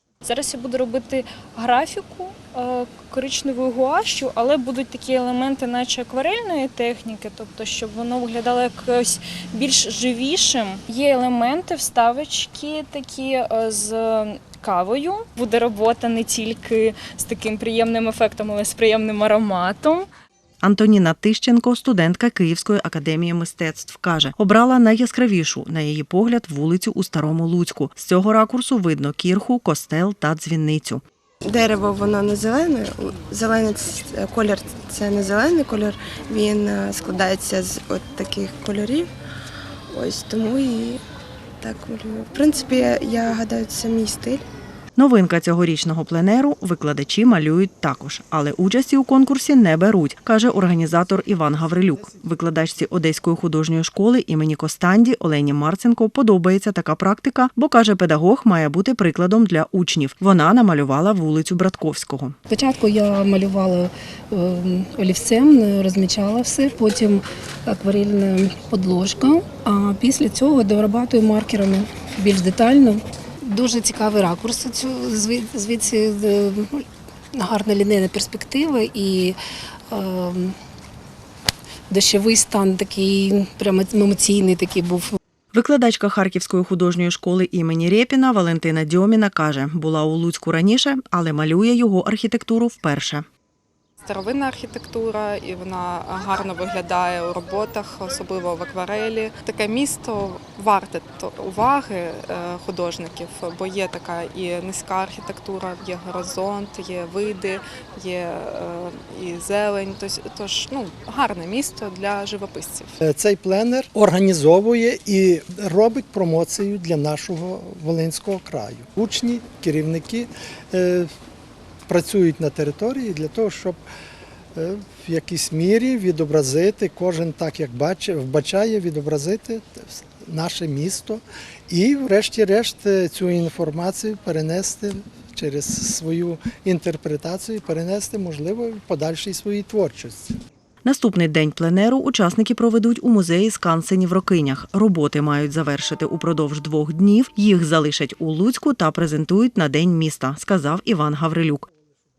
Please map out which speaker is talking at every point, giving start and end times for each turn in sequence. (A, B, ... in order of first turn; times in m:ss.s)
0:00.2-0:20.1 A
0:20.6-0:31.0 B
0:31.5-0:39.0 C
0:40.0-0:41.0 C
0:41.6-0:44.4 C
0:45.0-1:02.4 B
0:52.0-0:52.3 D
1:02.5-1:19.4 E
1:19.9-1:20.6 E
1:21.9-1:25.2 E
1:25.5-1:33.3 B
1:34.1-1:52.9 F
1:53.0-2:01.1 D
2:01.9-2:03.8 D
2:04.6-2:20.3 D
2:20.8-2:31.7 B